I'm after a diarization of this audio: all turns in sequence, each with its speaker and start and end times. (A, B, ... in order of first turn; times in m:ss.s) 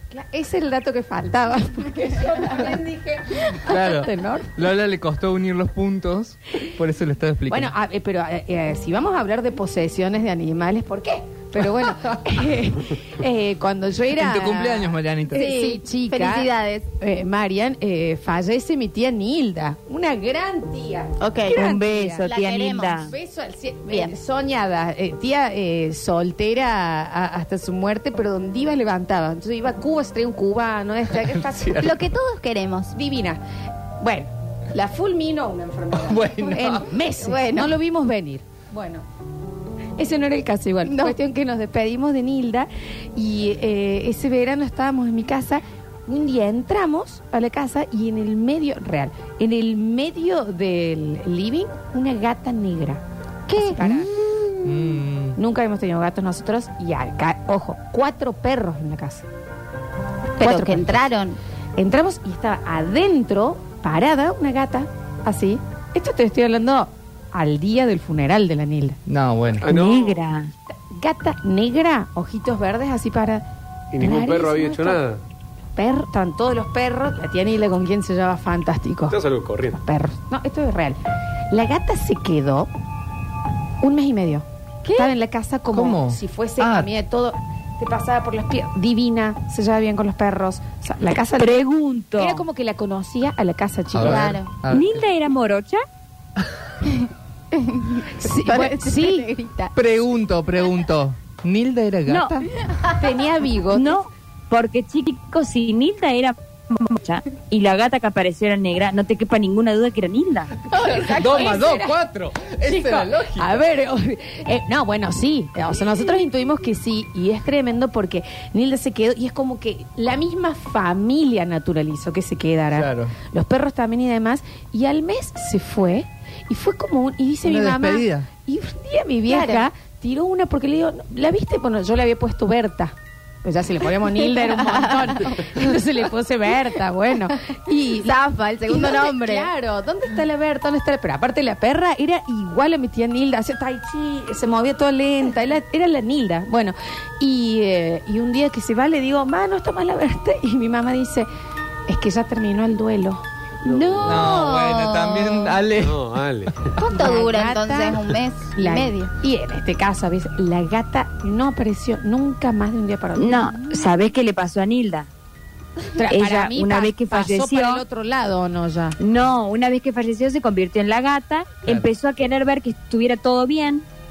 0:00.1-0:04.6 A
0:03.6-0:07.7 B
0:07.5-0:22.2 A
0:11.6-0:12.4 B
0:14.2-0:15.4 B
0:15.3-0:16.9 C
0:21.2-0:21.7 C
0:21.5-0:23.1 D
0:22.2-0:23.1 C
0:23.1-0:32.0 A
0:31.1-0:32.0 B
0:31.8-0:32.9 C
0:32.9-0:33.4 A
0:34.0-0:39.0 A
0:36.0-0:36.9 B
0:37.1-0:37.7 C
0:40.0-0:54.1 A
0:40.8-0:41.2 C
0:53.5-0:54.0 D
0:54.6-0:55.4 B
0:55.4-0:59.3 A
1:00.4-1:01.4 C
1:00.4-1:01.0 A
1:01.8-1:09.0 A
1:09.0-1:09.7 B
1:09.6-1:10.2 E
1:09.6-1:10.5 D
1:10.9-1:13.4 A
1:13.9-1:15.2 E
1:14.0-1:15.0 A
1:15.8-1:19.2 A
1:19.1-1:19.8 E
1:19.7-1:21.0 A
1:21.5-1:22.7 A
1:23.8-1:24.4 A
1:24.8-1:25.1 D
1:25.0-1:31.6 A
1:25.7-1:26.9 B
1:31.4-1:32.4 D
1:32.2-1:34.4 A
1:33.9-1:35.1 B
1:34.0-1:34.5 C
1:34.7-1:35.8 D
1:36.8-1:39.7 C
1:38.1-1:39.3 A
1:39.7-1:42.5 B
1:42.1-1:42.4 D
1:43.0-1:43.9 A
1:43.7-1:50.6 D
1:50.7-1:53.6 B
1:50.8-1:51.9 A
1:52.6-2:31.3 A
2:02.7-2:03.1 B
2:07.4-2:08.3 B
2:09.3-2:09.7 C
2:14.2-2:15.7 C
2:17.9-2:19.5 C
2:31.9-2:33.2 A
2:33.6-2:34.2 E
2:33.6-2:35.6 C
2:34.0-2:36.1 B
2:35.7-2:36.8 E
2:36.8-2:43.8 A
2:36.8-2:39.1 C
2:43.2-2:45.1 D
2:45.9-2:48.9 A
2:46.1-2:47.8 D
2:49.0-2:53.8 D